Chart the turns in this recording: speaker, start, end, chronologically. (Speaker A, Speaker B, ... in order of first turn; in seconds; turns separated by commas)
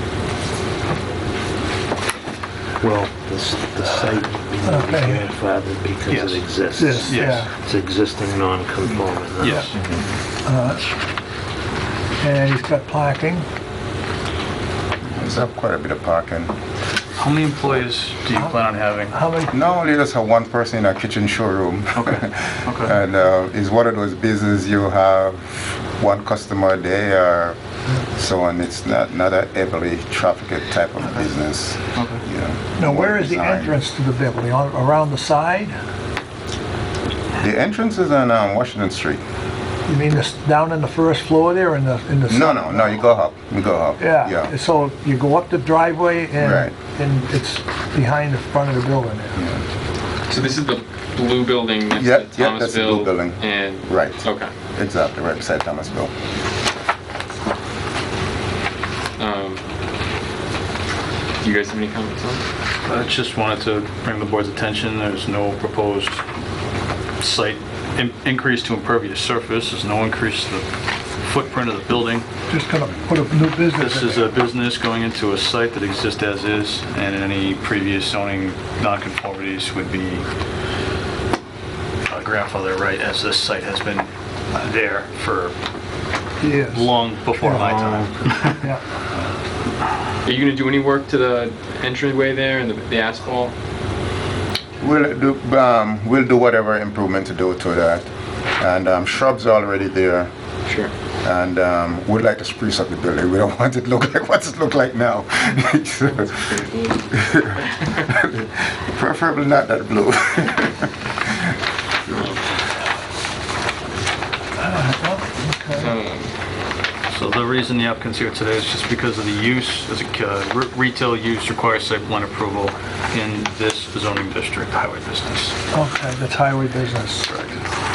Speaker A: 2.8-9.7, Speaker B: 4.6-5.2, Speaker C: 6.1-6.4, Speaker B: 6.8-7.5, Speaker C: 7.0-7.5, Speaker C: 9.4-9.8, Speaker B: 10.4-10.8, Speaker B: 12.2-13.5, Speaker D: 15.1-16.5, Speaker C: 17.2-19.2, Speaker B: 19.1-19.5, Speaker D: 19.5-27.6, Speaker C: 22.7-22.9, Speaker D: 28.1-33.8, Speaker C: 31.0-31.3, Speaker B: 32.8-35.8, Speaker D: 37.4-39.2, Speaker B: 39.9-43.0, Speaker D: 42.3-44.5, Speaker B: 44.0-49.4, Speaker D: 46.4-46.8, Speaker E: 50.3-54.5, Speaker D: 52.0-56.1, Speaker E: 59.2-59.6, Speaker E: 61.4-62.4, Speaker C: 62.9-66.2, Speaker C: 67.2-70.7, Speaker C: 71.2-72.3, Speaker B: 72.5-74.3, Speaker C: 73.8-80.2, Speaker C: 82.1-85.5, Speaker B: 86.4-86.9, Speaker C: 86.7-88.6, Speaker B: 87.4-87.7, Speaker A: 87.8-88.0, Speaker E: 90.2-93.5, Speaker D: 94.8-100.3, Speaker D: 101.2-111.5, Speaker D: 112.1-112.3, Speaker E: 112.1-112.5, Speaker B: 114.6-115.9, Speaker E: 115.8-116.3, Speaker C: 117.1-125.6, Speaker B: 125.7-127.3, Speaker C: 127.3-127.6